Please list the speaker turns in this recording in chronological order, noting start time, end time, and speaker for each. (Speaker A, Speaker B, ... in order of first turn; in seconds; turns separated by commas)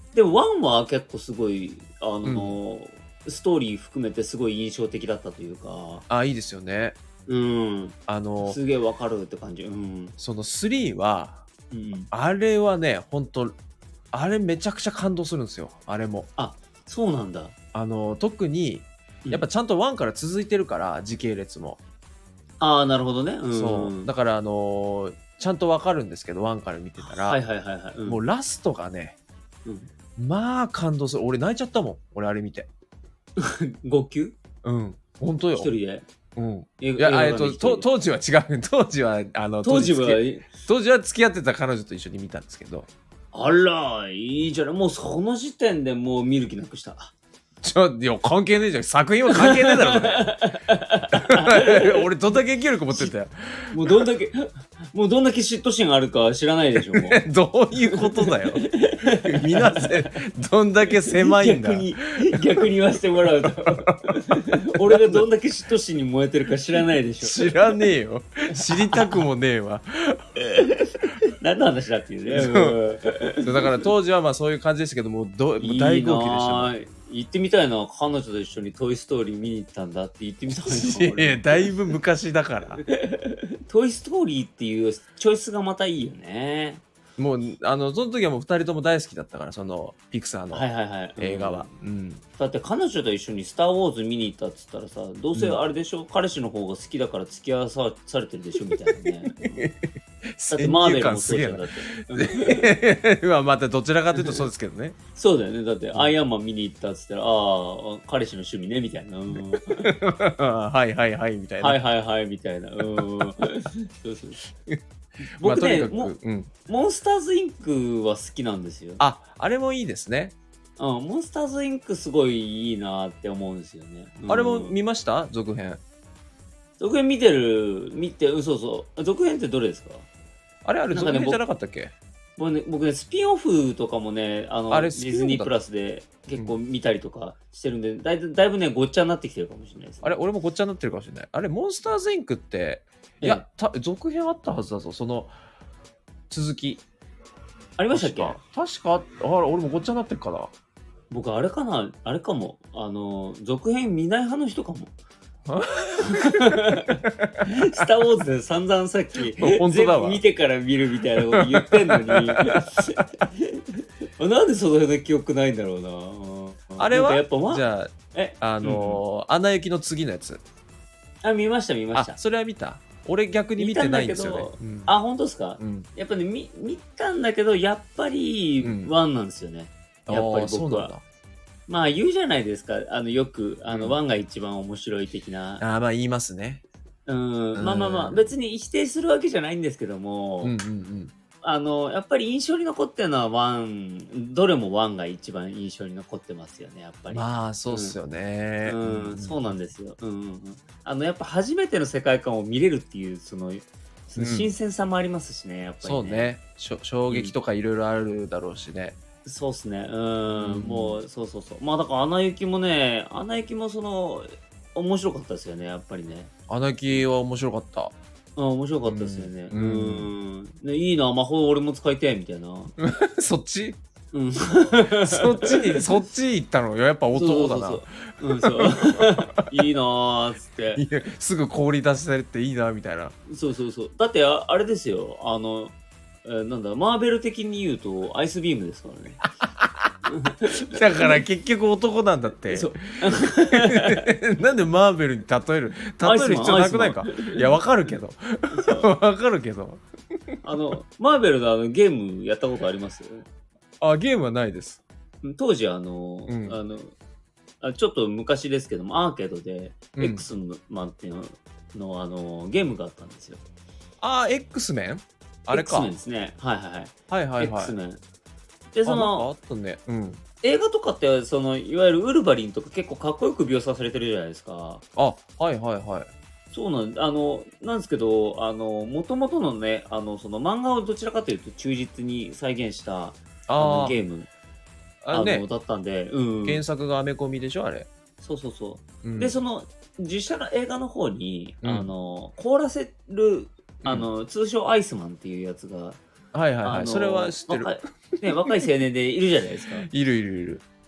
Speaker A: 0.1-6.0, Speaker B: 2.2-2.6, Speaker B: 6.1-7.0, Speaker A: 7.3-10.1, Speaker B: 8.1-8.6, Speaker B: 10.2-11.4, Speaker A: 11.7-12.1, Speaker B: 12.1-13.5, Speaker B: 14.1-16.3, Speaker A: 16.4-17.5, Speaker B: 17.7-21.8, Speaker A: 22.6-24.1, Speaker B: 23.5-27.4, Speaker A: 27.0-28.2, Speaker B: 28.1-29.2, Speaker A: 29.6-29.9, Speaker B: 30.2-32.7, Speaker A: 33.4-34.3, Speaker B: 34.6-35.7, Speaker A: 35.5-36.0, Speaker B: 36.4-42.9, Speaker A: 36.8-37.9, Speaker A: 39.6-40.5, Speaker A: 43.3-47.1, Speaker B: 47.6-50.3, Speaker A: 49.3-52.1, Speaker B: 51.1-54.1, Speaker A: 53.7-57.2, Speaker B: 56.9-58.6, Speaker A: 57.9-60.1, Speaker B: 59.2-62.0, Speaker A: 60.9-67.9, Speaker B: 63.4-65.2, Speaker B: 67.2-70.4, Speaker A: 68.5-69.2, Speaker A: 70.4-73.9, Speaker B: 72.3-72.8, Speaker B: 73.4-76.7, Speaker A: 75.6-81.8, Speaker B: 80.7-82.8, Speaker A: 82.8-86.8, Speaker B: 87.2-90.7, Speaker A: 90.5-91.7, Speaker B: 91.2-92.2, Speaker A: 92.4-99.7, Speaker B: 98.9-105.0, Speaker A: 100.5-102.7, Speaker A: 104.2-104.4, Speaker A: 105.1-109.9, Speaker B: 109.4-111.8, Speaker A: 111.6-114.4, Speaker A: 115.3-119.0, Speaker B: 115.4-116.5, Speaker B: 119.0-120.3, Speaker A: 120.8-124.8, Speaker B: 124.3-125.8, Speaker A: 126.8-130.1, Speaker B: 130.6-131.9, Speaker A: 130.9-131.4, Speaker A: 132.4-140.2, Speaker B: 134.7-135.5, Speaker B: 140.0-145.3, Speaker B: 146.3-146.8, Speaker A: 147.8-148.4, Speaker B: 147.9-150.5, Speaker A: 151.1-154.9, Speaker B: 155.5-157.4, Speaker A: 156.1-169.0, Speaker B: 159.3-160.2, Speaker B: 161.3-162.6, Speaker B: 166.8-170.4, Speaker A: 171.2-172.2, Speaker B: 171.9-174.9, Speaker A: 173.6-180.9, Speaker B: 175.6-175.9, Speaker B: 178.6-178.9, Speaker B: 180.1-181.0, Speaker A: 181.7-185.6, Speaker B: 183.7-183.9, Speaker B: 185.6-186.6, Speaker A: 187.1-190.6, Speaker B: 187.6-188.3, Speaker B: 190.4-191.1, Speaker A: 191.4-198.0, Speaker B: 197.1-199.4, Speaker A: 198.6-206.3, Speaker B: 204.2-204.5, Speaker B: 205.8-209.0, Speaker A: 207.1-207.3, Speaker A: 209.2-216.3, Speaker B: 210.3-211.0, Speaker B: 216.5-217.9, Speaker A: 218.3-222.7, Speaker B: 218.9-220.1, Speaker B: 222.8-223.8, Speaker A: 224.1-225.9, Speaker B: 225.0-229.4, Speaker A: 227.1-230.8, Speaker B: 230.7-233.1, Speaker A: 233.3-239.2, Speaker B: 239.6-239.9, Speaker A: 240.1-241.2, Speaker B: 240.6-242.8, Speaker A: 242.5-244.1, Speaker B: 243.6-249.8, Speaker A: 246.0-247.6, Speaker A: 248.5-248.9, Speaker A: 250.4-253.2, Speaker B: 253.8-254.8, Speaker A: 255.2-256.9, Speaker B: 256.3-256.6, Speaker A: 257.6-263.4, Speaker B: 260.0-260.2, Speaker B: 264.0-265.9, Speaker A: 265.5-268.0, Speaker B: 267.1-267.7, Speaker A: 268.7-269.3, Speaker B: 268.8-270.2, Speaker A: 270.4-274.8, Speaker B: 274.9-276.1, Speaker A: 276.5-284.3, Speaker B: 283.5-284.0, Speaker B: 285.0-285.4, Speaker A: 285.1-286.6, Speaker B: 286.4-287.9, Speaker A: 288.2-296.0, Speaker B: 289.0-289.4, Speaker B: 291.6-291.9, Speaker B: 296.3-298.5, Speaker A: 296.6-299.9, Speaker B: 299.9-300.6